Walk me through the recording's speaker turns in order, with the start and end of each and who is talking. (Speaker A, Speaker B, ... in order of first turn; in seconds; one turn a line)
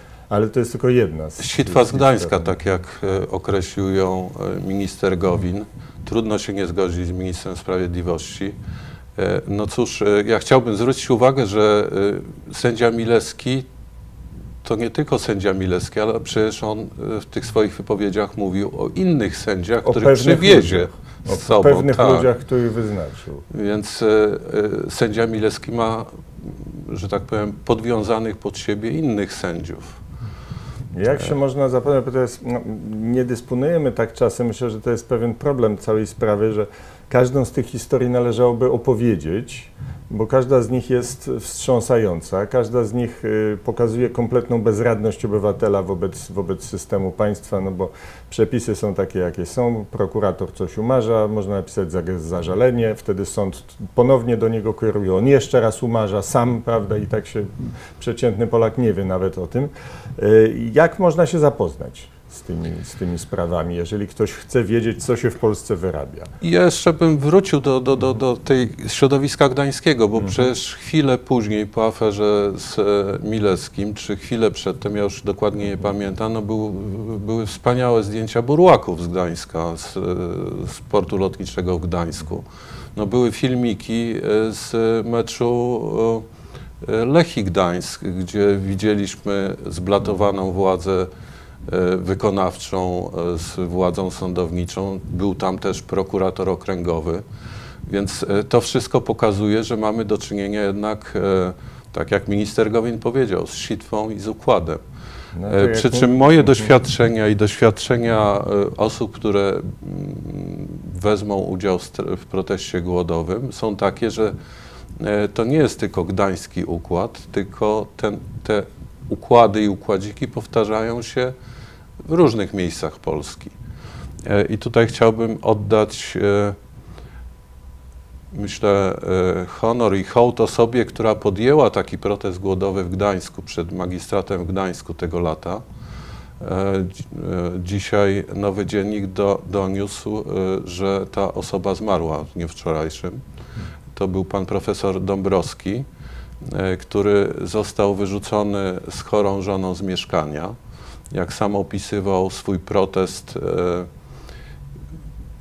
Speaker A: 0.3-2.5
Speaker B: 1.4-8.5
Speaker B: 9.2-13.7
Speaker B: 14.6-22.3
Speaker A: 19.8-23.4
Speaker B: 23.5-30.0
Speaker A: 30.9-66.3
Speaker B: 66.4-82.4
Speaker B: 82.9-86.2
Speaker B: 86.8-91.1
Speaker B: 91.7-97.2
Speaker B: 97.8-104.8
Speaker A: 105.3-106.7
Speaker B: 105.5-114.3
Speaker B: 115.0-121.3
Speaker B: 122.0-123.5
Speaker B: 124.2-126.6
Speaker B: 128.3-135.6
Speaker B: 136.4-143.2
Speaker B: 143.9-145.8
Speaker B: 146.4-150.5
Speaker B: 151.1-153.9